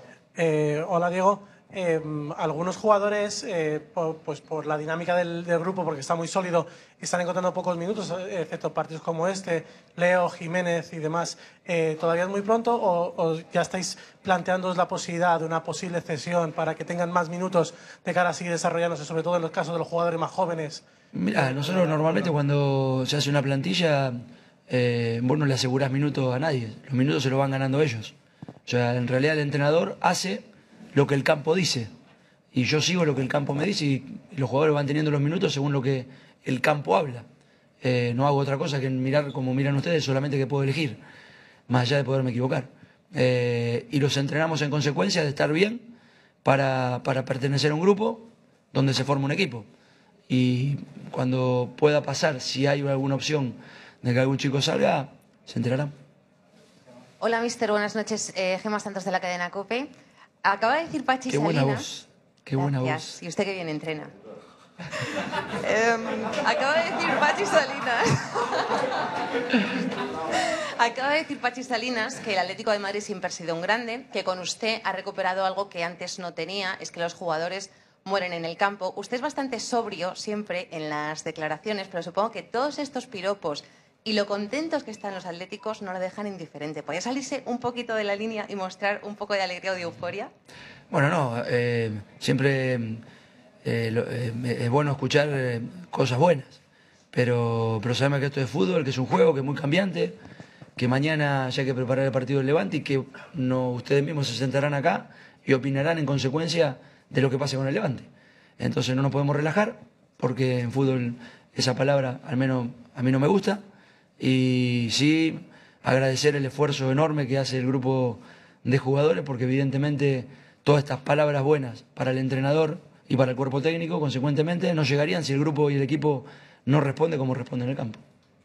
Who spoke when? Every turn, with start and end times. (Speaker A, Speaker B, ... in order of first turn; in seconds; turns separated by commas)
Speaker A: 0.3-20.8, Speaker B: 21.1-24.2, Speaker A: 21.4-22.1, Speaker B: 24.7-28.1, Speaker B: 28.6-31.9, Speaker B: 32.5-37.2, Speaker B: 37.8-41.0, Speaker B: 41.7-45.9, Speaker B: 46.4-49.6, Speaker B: 50.3-55.9, Speaker C: 57.2-59.9, Speaker C: 60.4-61.8, Speaker B: 61.3-63.2, Speaker C: 62.6-64.1, Speaker C: 64.9-90.3, Speaker B: 90.9-93.0, Speaker B: 93.6-96.6, Speaker B: 97.1-100.2, Speaker B: 100.8-108.1, Speaker B: 108.6-113.6, Speaker B: 114.2-128.0